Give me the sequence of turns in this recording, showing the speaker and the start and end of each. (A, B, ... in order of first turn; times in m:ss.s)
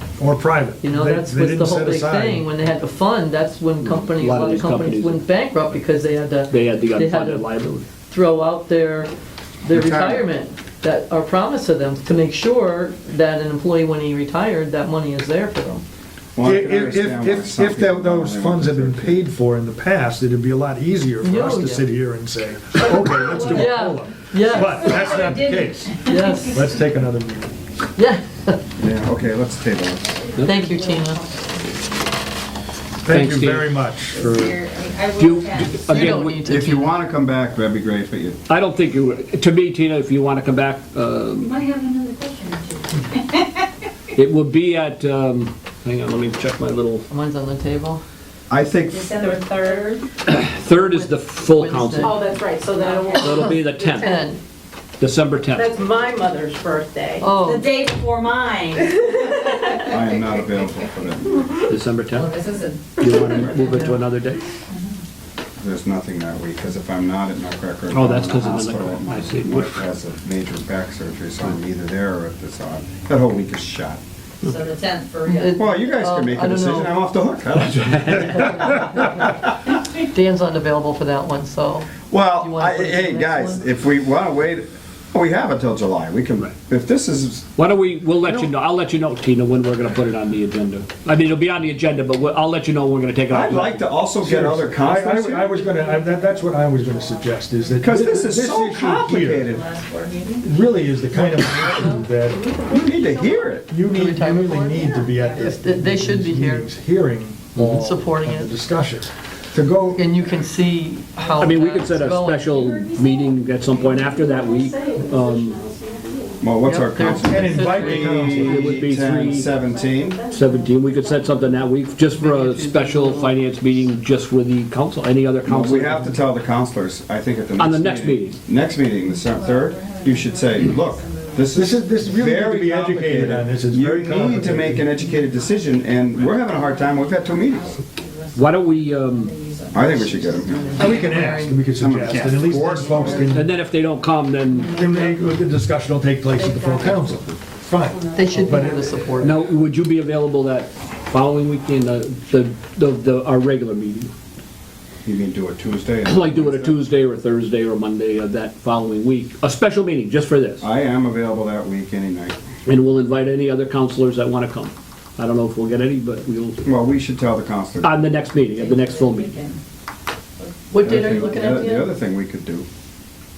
0:00.2-0:02.5 A
0:00.8-0:09.1 B
0:03.8-0:05.2 C
0:06.5-0:07.9 C
0:09.6-0:15.8 B
0:09.7-0:10.2 D
0:16.4-0:19.3 D
0:16.4-0:26.0 A
0:21.2-0:21.9 B
0:23.1-0:26.7 E
0:23.5-0:24.9 B
0:26.0-0:26.7 B
0:26.5-0:27.5 A
0:28.0-0:28.6 B
0:28.8-0:30.2 D
0:30.1-0:31.7 E
0:30.4-0:31.2 B
0:33.0-0:34.4 A
0:33.0-0:34.3 C
0:34.1-0:36.0 E
0:35.2-0:36.5 C
0:35.9-0:37.0 B
0:36.4-0:38.4 D
0:38.5-0:41.5 C
0:41.4-0:43.6 E
0:44.1-0:47.0 C
0:47.1-0:48.0 B
0:48.5-0:49.1 D
0:48.9-0:50.0 F
0:49.1-0:50.0 E
0:50.2-0:52.2 C
0:50.7-0:52.4 B
0:52.0-0:54.2 F
0:52.8-0:53.3 E
0:53.1-0:54.4 B
0:53.2-0:54.1 C
0:55.0-0:55.7 C
0:55.5-0:57.4 F
0:57.2-0:57.7 B
0:57.3-1:00.9 E
0:58.9-0:59.9 F
0:59.8-1:01.5 D
1:01.7-1:02.3 C
1:02.1-1:03.5 E
1:03.0-1:04.4 C
1:03.6-1:04.0 B
1:04.7-1:05.0 E
1:05.6-1:14.0 D
1:07.9-1:09.8 C
1:14.4-1:15.6 E
1:15.2-1:17.0 B
1:15.5-1:19.4 D
1:17.6-1:18.8 C
1:20.1-1:23.6 B
1:22.1-1:27.5 D
1:27.6-1:33.9 C
1:33.3-1:35.6 D
1:34.2-1:39.4 A
1:36.1-1:37.9 E
1:37.8-1:39.6 D
1:39.3-1:40.5 E
1:40.4-1:42.4 A
1:41.2-1:43.0 B
1:42.6-1:43.4 F
1:42.6-1:43.7 D
1:43.7-1:50.0 A
1:43.8-1:46.7 B
1:44.7-1:45.6 E
1:47.6-1:48.5 B
1:49.9-1:52.7 B
1:51.4-1:55.6 C
1:52.7-1:53.4 E
1:53.7-1:56.4 F
1:56.4-2:00.3 D
1:56.6-1:58.5 B
1:57.2-1:58.6 A
1:58.4-1:59.5 C
2:00.0-2:00.4 F
2:00.2-2:06.2 C
2:00.4-2:01.4 E
2:02.1-2:03.6 B
2:05.4-2:17.8 D
2:07.6-2:08.4 C
2:09.1-2:11.9 E
2:11.5-2:14.9 A
2:14.9-2:15.7 E
2:16.4-2:20.9 E
2:18.3-2:19.3 C
2:19.7-2:21.0 D
2:20.3-2:21.8 B
2:20.8-2:23.5 A
2:21.6-2:23.4 D
2:22.3-2:23.2 E
2:23.2-2:24.7 C
2:24.5-2:25.4 E
2:24.7-2:28.7 A
2:26.3-2:27.2 E
2:27.8-2:29.3 E
2:28.1-2:29.4 B
2:29.2-2:34.1 C
2:35.0-2:36.8 D
2:36.0-2:40.6 C
2:40.6-2:42.4 D
2:42.6-2:46.6 C
2:46.6-2:48.0 D
2:47.8-2:49.3 C
2:48.4-2:49.6 E
2:50.4-2:51.2 E
2:50.7-2:51.9 B
2:50.8-2:52.7 D